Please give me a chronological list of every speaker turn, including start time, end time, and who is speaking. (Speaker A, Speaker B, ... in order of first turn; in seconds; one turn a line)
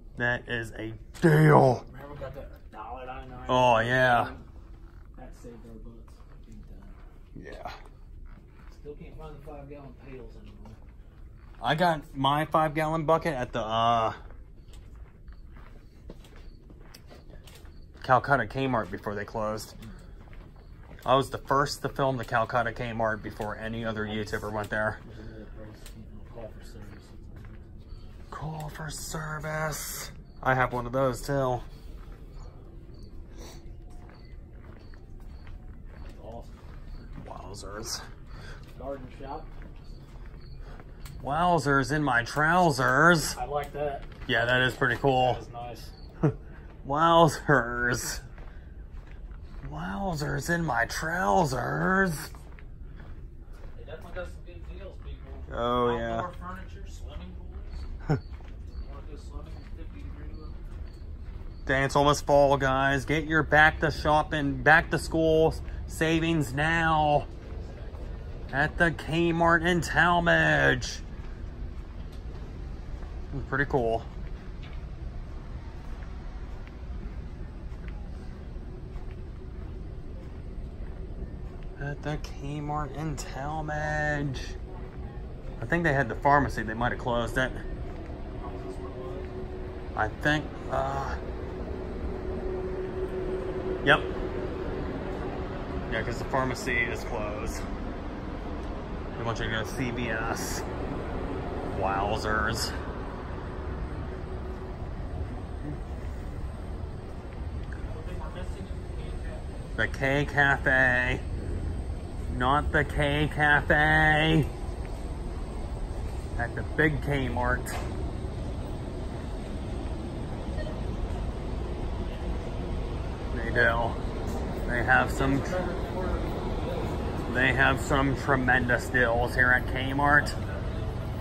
Speaker A: 0.2-1.8
Speaker B: 1.8-4.4
Speaker A: 3.5-4.3
Speaker B: 5.1-7.0
Speaker A: 7.3-7.8
Speaker B: 8.7-10.8
Speaker A: 11.6-14.2
Speaker A: 18.0-19.7
Speaker A: 21.0-25.0
Speaker B: 24.0-24.5
Speaker B: 25.0-27.6
Speaker A: 28.3-31.6
Speaker B: 36.0-36.6
Speaker A: 37.2-38.0
Speaker B: 38.7-39.6
Speaker A: 41.2-43.4
Speaker B: 43.3-44.2
Speaker A: 44.3-45.4
Speaker B: 45.0-45.9
Speaker A: 46.8-48.2
Speaker A: 49.6-52.3
Speaker B: 53.7-57.9
Speaker A: 55.5-56.3
Speaker B: 58.6-60.6
Speaker A: 61.6-67.3
Speaker B: 67.6-68.0
Speaker A: 68.5-71.0
Speaker A: 73.3-74.1
Speaker A: 81.8-84.5
Speaker A: 85.6-87.6
Speaker B: 88.3-89.3
Speaker A: 89.9-91.2
Speaker A: 93.8-94.1
Speaker A: 95.9-97.6
Speaker A: 99.2-100.6
Speaker A: 101.7-102.7
Speaker B: 107.7-109.5
Speaker A: 109.8-111.2
Speaker A: 112.3-114.5
Speaker A: 116.3-117.8
Speaker A: 123.3-124.0
Speaker A: 124.7-125.5
Speaker B: 125.1-127.7
Speaker A: 127.3-130.3
Speaker B: 130.2-131.0